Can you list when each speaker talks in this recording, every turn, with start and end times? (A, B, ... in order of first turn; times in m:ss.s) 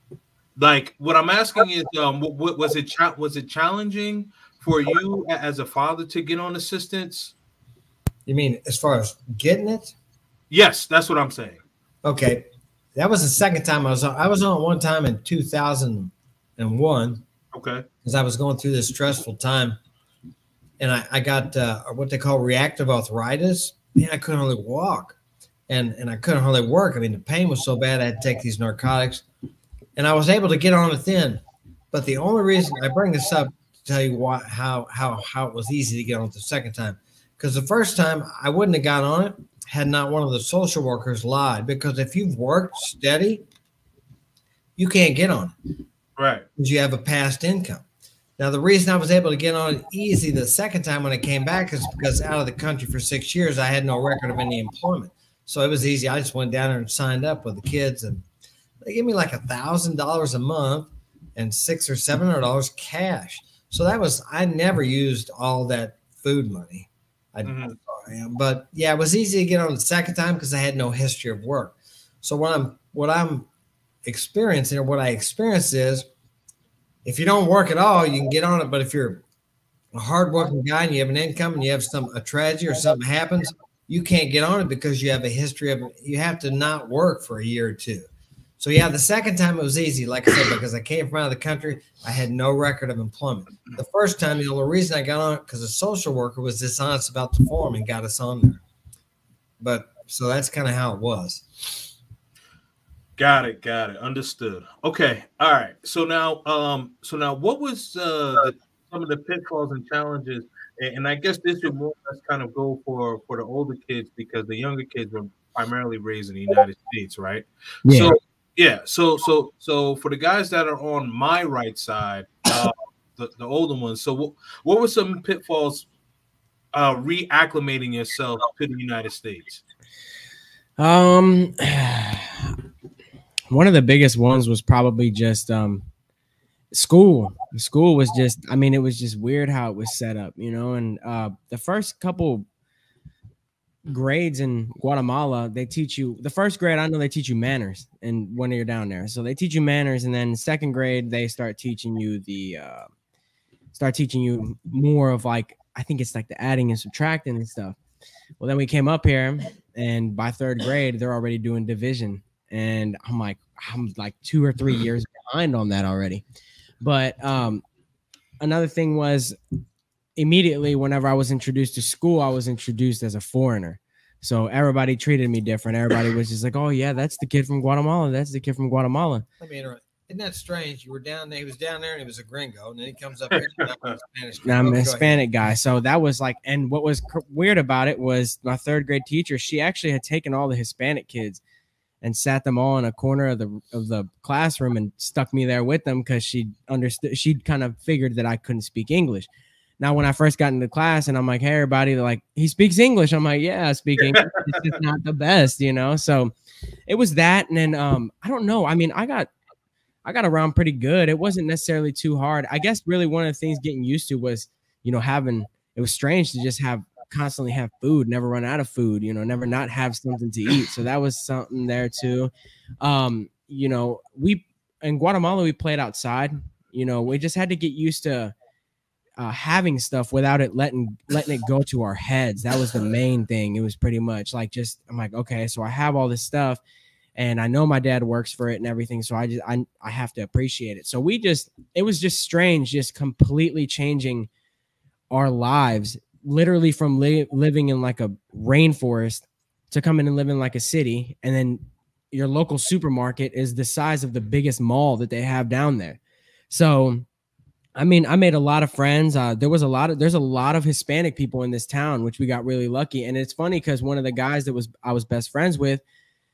0:00.6-0:07.3 A
0:08.3-0:09.9 B
0:10.5-0:11.6 A
0:12.0-0:17.2 B
0:17.5-0:17.8 A
0:18.0-0:19.8 B
0:20.8-0:25.2 B
0:25.7-0:29.2 B
0:30.0-0:31.4 B
0:31.9-0:43.4 B
0:44.8-0:45.5 B
0:46.2-0:46.4 A
0:46.6-0:47.8 B
0:48.4-0:58.2 B
0:58.8-1:13.5 B
1:07.4-1:07.8 A
1:14.0-1:16.1 B
1:17.0-1:19.2 B
1:19.9-1:28.1 B
1:28.6-1:38.6 B
1:39.6-1:41.9 B
1:43.2-2:05.9 A
1:57.8-1:58.2 C
2:06.7-2:09.6 A
2:10.8-2:12.6 C
2:13.5-2:15.9 C
2:16.7-2:22.5 C
2:23.9-2:32.9 C
2:33.7-2:37.8 C
2:38.4-2:46.2 C
2:46.8-2:47.6 C
2:48.4-2:49.4 C
2:50.2-2:59.2 C
2:59.4-3:05.2 B
3:04.4-3:11.4 C
3:12.0-3:19.3 C
3:19.8-3:26.3 C
3:26.9-3:29.3 C
3:30.0-3:48.3 C
3:49.2-3:56.6 C
3:57.2-4:04.3 C
4:05.1-4:16.0 C
4:16.5-4:17.1 C
4:17.8-4:25.8 C